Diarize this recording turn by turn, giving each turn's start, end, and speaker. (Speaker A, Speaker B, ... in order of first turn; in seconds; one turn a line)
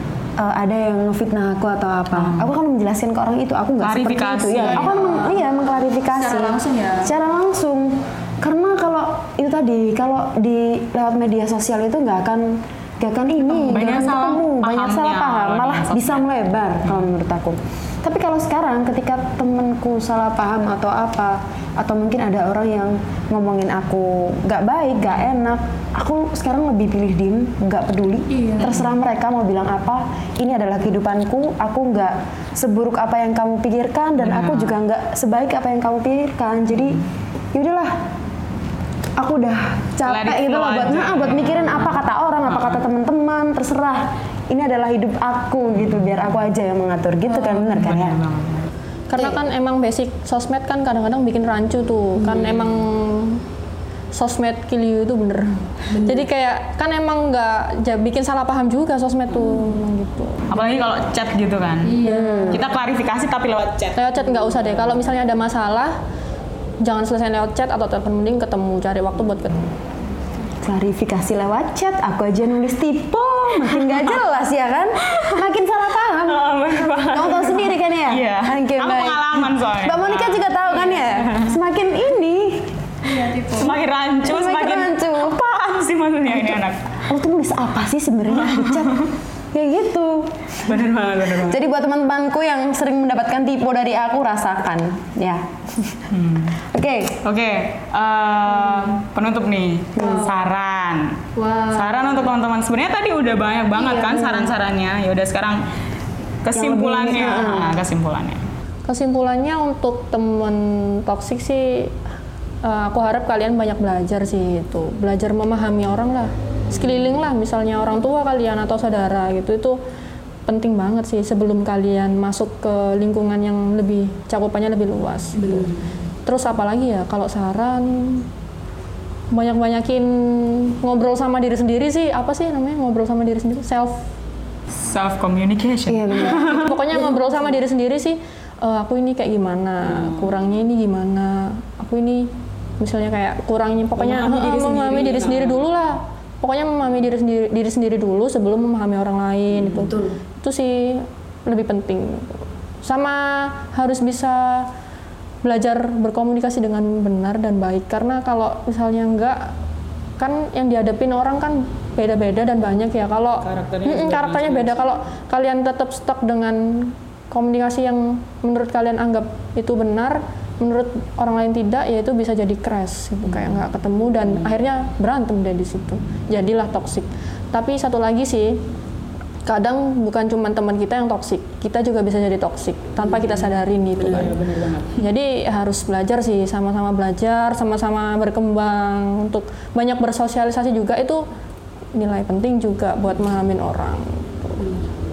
Speaker A: 0.4-37.0
Speaker B: 2.1-2.5
Speaker B: 3.8-5.4
Speaker C: 4.5-5.3
Speaker C: 6.1-7.1
Speaker B: 13.6-16.2
Speaker C: 28.3-28.7
Speaker B: 28.6-28.9
Speaker B: 34.2-34.8
Speaker A: 37.5-37.9
Speaker A: 39.2-48.2
Speaker B: 40.0-42.8
Speaker B: 45.8-46.1
Speaker B: 47.4-48.7
Speaker C: 49.1-53.4
Speaker C: 54.1-60.5
Speaker B: 60.5-64.0
Speaker C: 61.8-62.6
Speaker A: 62.0-62.6
Speaker C: 63.9-65.9
Speaker C: 66.8-69.6
Speaker A: 70.6-85.5
Speaker B: 73.6-74.1
Speaker B: 75.0-75.4
Speaker B: 76.2-81.5
Speaker C: 83.1-83.6
Speaker B: 83.4-86.8
Speaker A: 86.3-97.2
Speaker B: 88.3-89.1
Speaker B: 90.6-91.6
Speaker B: 96.1-96.6
Speaker B: 97.2-101.2
Speaker A: 100.0-100.4
Speaker C: 100.0-100.3
Speaker C: 101.3-102.2
Speaker B: 101.7-105.6
Speaker C: 103.8-104.3
Speaker A: 104.0-104.5
Speaker B: 106.4-108.4
Speaker A: 106.5-107.7
Speaker C: 108.9-111.9
Speaker C: 112.6-119.8
Speaker C: 120.5-125.7
Speaker A: 125.4-125.7
Speaker C: 126.2-128.2
Speaker C: 129.3-134.0
Speaker B: 134.7-136.7
Speaker A: 135.9-137.3
Speaker C: 136.2-154.7
Speaker B: 139.8-140.4
Speaker B: 144.0-145.7
Speaker B: 149.6-149.9
Speaker A: 149.7-150.1
Speaker C: 155.4-159.5
Speaker C: 160.2-178.6
Speaker B: 163.4-164.9
Speaker B: 173.3-173.6
Speaker C: 179.4-191.2
Speaker B: 183.9-185.0
Speaker C: 191.9-194.7